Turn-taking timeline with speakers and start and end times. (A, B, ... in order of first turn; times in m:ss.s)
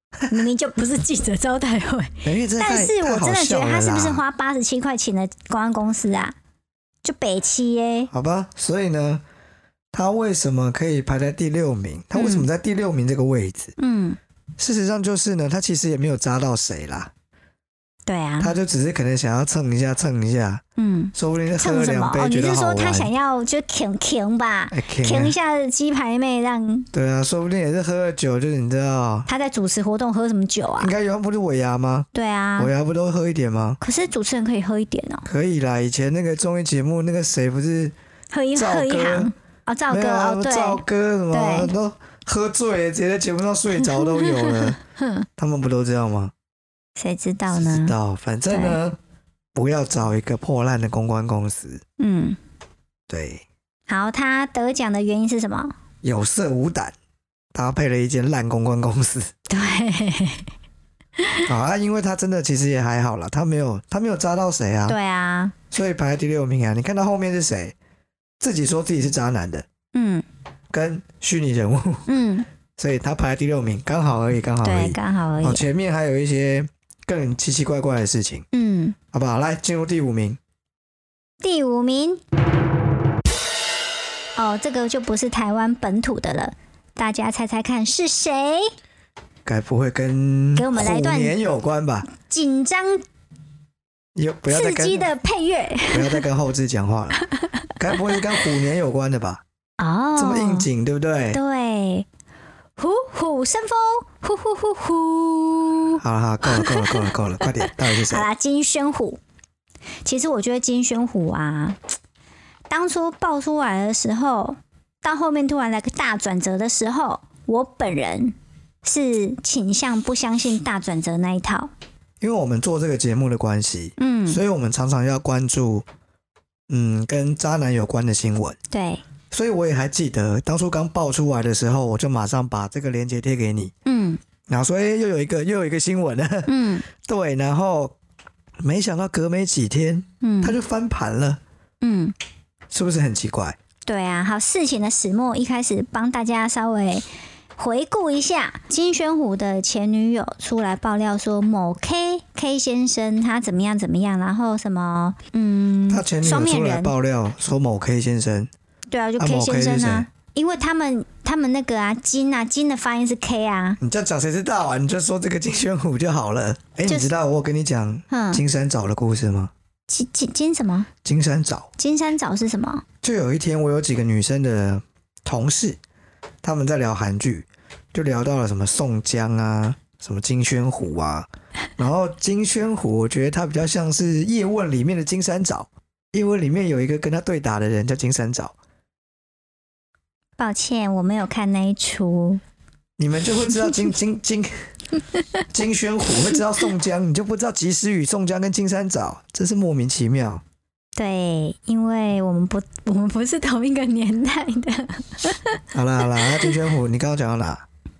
0:00.3-0:06.3 A
0:02.2-0:04.2 B
0:07.0-0:08.1 A
0:08.1-0:09.2 B
0:09.9-0:13.7 B
0:12.1-0:12.5 A
0:13.8-0:14.2 A
0:14.6-0:17.1 B
0:18.0-0:18.5 A
0:18.4-0:20.6 B
0:20.8-0:26.9 A
0:21.1-0:23.1 B
0:24.7-0:25.3 B
0:26.9-0:29.3 B
0:29.3-0:30.9 A
0:30.8-0:33.8 B
0:32.1-0:32.7 A
0:33.8-0:35.2 A
0:35.2-0:37.9 B
0:38.3-0:41.7 A
0:38.5-0:39.3 B
0:39.9-0:44.8 B
0:43.8-0:45.2 A
0:45.4-0:46.3 B
0:47.0-0:47.9 A
0:47.5-0:49.0 B
0:48.5-0:48.8 A
0:49.5-0:51.8 B
0:52.0-0:52.4 A
0:53.1-0:53.4 B
0:53.9-0:55.7 A
0:56.0-0:56.9 B
0:57.5-0:59.3 B
0:59.5-1:00.5 A
1:01.2-1:01.4 A
1:01.4-1:05.0 B
1:04.9-1:05.5 A
1:05.7-1:07.7 B
1:08.4-1:09.6 B
1:09.9-1:10.2 A
1:10.7-1:12.1 B
1:12.1-1:12.5 A
1:12.8-1:18.5 B
1:14.6-1:15.6 A
1:18.5-1:19.0 A
1:19.1-1:20.4 B
1:21.4-1:22.2 A
1:24.4-1:28.7 A
1:29.4-1:32.1 B
1:30.6-1:31.4 A
1:32.1-1:33.0 A
1:34.1-1:35.1 B
1:34.5-1:36.2 A
1:35.9-1:37.2 B
1:37.8-1:39.4 B
1:39.8-1:40.7 A
1:40.2-1:41.4 B
1:41.3-1:42.1 A
1:42.8-1:49.2 A
1:46.0-1:48.2 B
1:50.0-1:51.8 A
1:52.7-2:01.7 A
2:02.2-2:05.8 B
2:04.0-2:04.4 A
2:06.7-2:08.6 B
2:08.7-2:09.0 A
2:09.3-2:13.7 B
2:13.8-2:14.2 A
2:14.5-2:17.9 B
2:16.4-2:16.9 A
2:18.6-2:21.4 B
2:20.2-2:20.6 A
2:21.8-2:22.1 A
2:22.7-2:23.6 B
2:23.8-2:27.0 A
2:27.6-2:36.9 A
2:35.9-2:38.5 B
2:38.9-2:43.8 A
2:39.2-2:40.1 B
2:43.8-2:49.5 B
2:48.1-2:48.4 A
2:49.9-2:50.9 A
2:51.0-2:51.7 B
2:51.8-2:52.8 A
2:53.0-2:55.8 B
2:56.4-3:08.5 B
3:10.4-3:12.4 A
3:13.0-3:14.5 B
3:15.1-3:15.4 A
3:15.5-3:20.4 B
3:21.0-3:25.6 A
3:25.7-3:27.6 B
3:26.1-3:26.5 A